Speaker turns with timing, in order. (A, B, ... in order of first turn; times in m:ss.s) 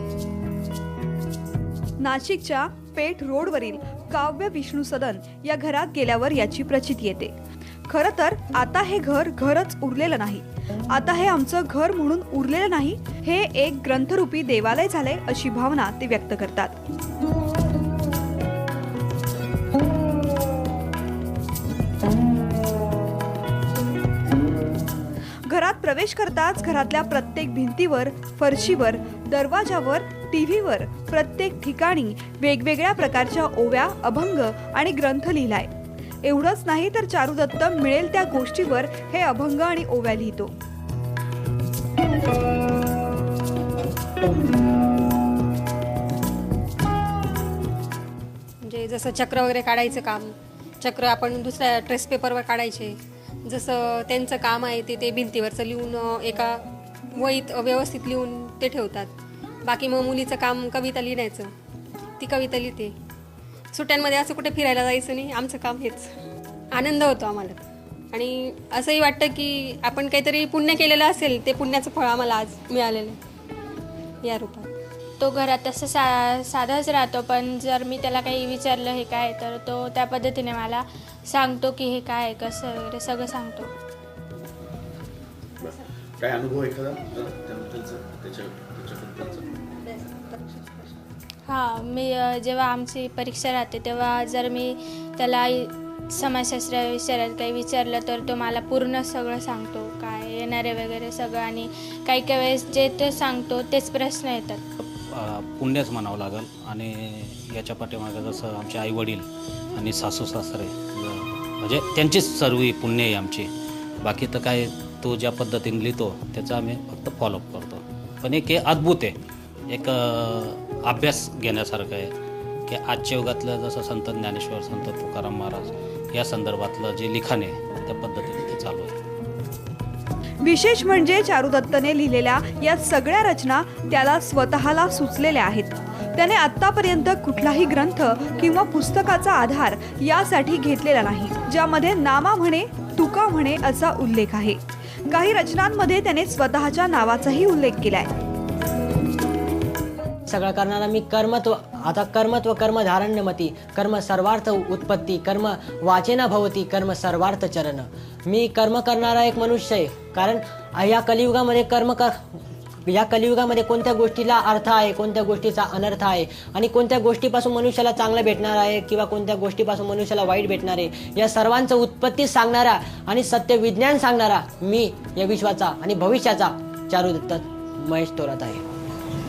0:02.0-0:07.3 A
0:07.9-0:16.8 A
0:25.5-0:35.7 A
0:36.2-0:40.5 A
0:48.6-0:59.1 B
0:59.6-1:01.5 B
1:02.2-1:03.0 B
1:03.7-1:06.1 B
1:06.7-1:13.2 B
1:14.2-1:14.7 B
1:15.2-1:23.7 C
1:25.6-1:29.5 D
1:31.5-1:44.6 C
1:44.8-1:53.5 E
1:54.0-1:59.2 E
1:59.7-2:02.1 E
2:02.7-2:08.9 E
2:10.4-2:28.1 A
2:30.3-2:42.2 F
2:42.9-2:58.6 F